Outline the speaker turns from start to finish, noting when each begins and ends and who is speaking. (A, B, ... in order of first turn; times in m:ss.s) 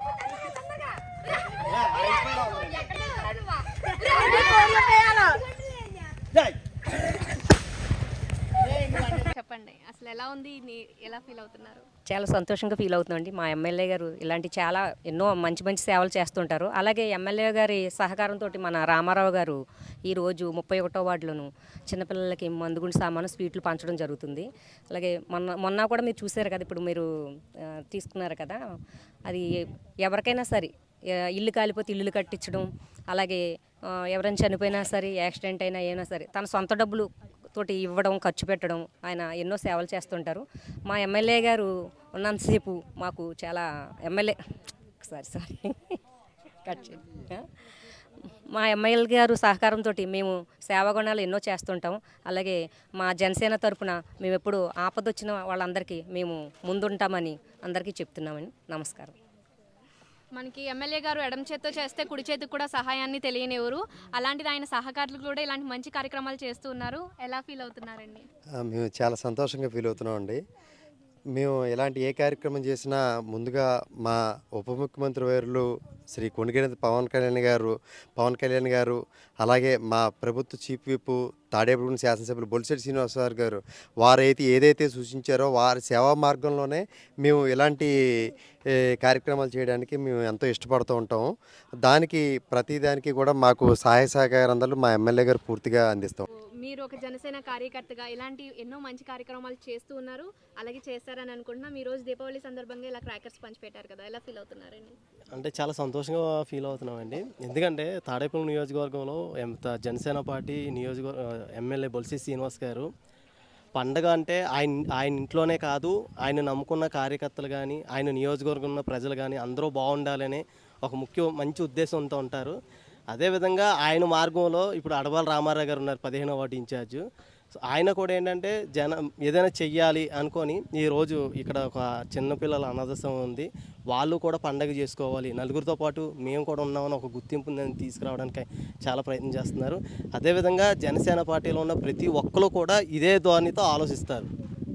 0:04.1-0:05.0 A
0:08.7-0:11.8 A
0:12.1-0:27.1 B
0:27.9-0:28.6 B
0:30.0-0:30.7 B
0:31.4-0:33.4 B
0:34.1-0:44.4 B
0:45.0-0:46.0 B
0:46.6-0:47.5 B
0:48.5-0:59.1 B
1:00.3-1:08.3 A
1:08.6-1:10.4 C
1:11.3-1:31.3 C
1:31.8-1:36.3 C
1:36.6-1:45.0 A
1:45.3-1:52.9 D
1:53.8-2:02.5 D
2:03.1-2:07.0 D
2:07.7-2:24.3 D